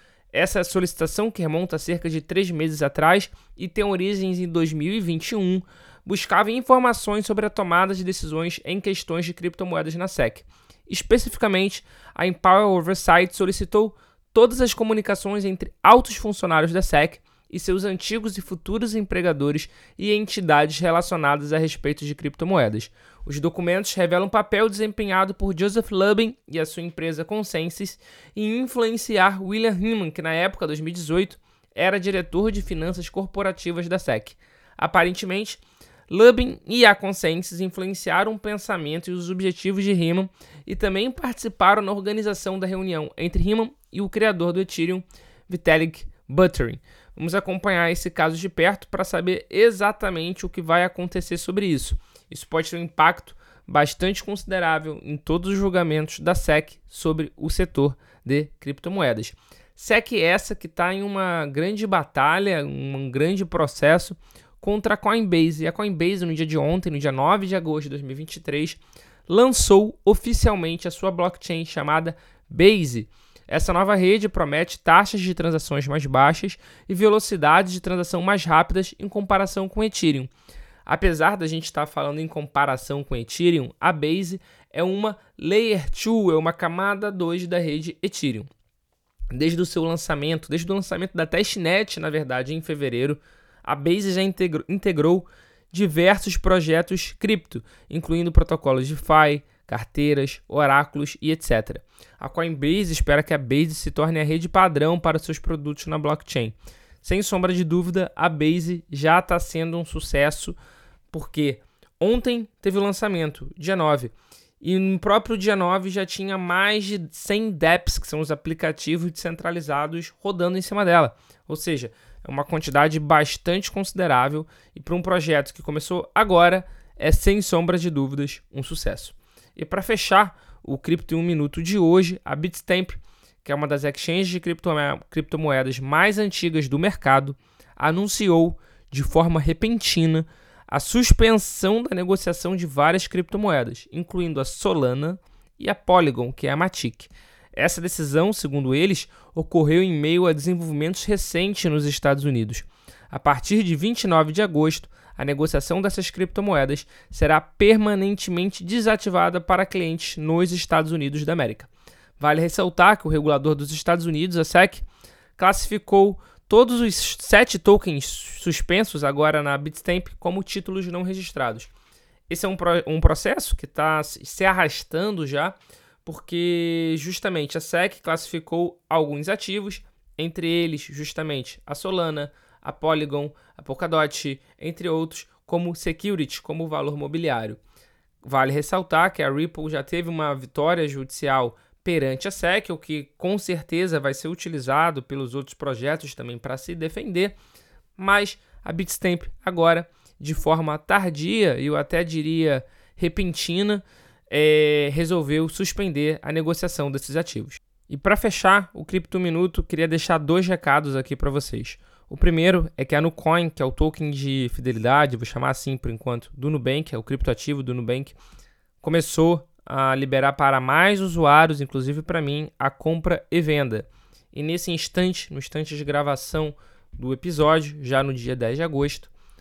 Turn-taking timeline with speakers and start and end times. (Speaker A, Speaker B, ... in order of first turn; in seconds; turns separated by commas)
Speaker A: 0.3-80.3, Speaker A: 80.9-88.5, Speaker A: 89.3-110.6, Speaker A: 111.1-164.8, Speaker A: 165.4-171.7, Speaker A: 172.3-187.6, Speaker A: 188.2-197.3, Speaker A: 198.0-218.2, Speaker A: 218.8-229.1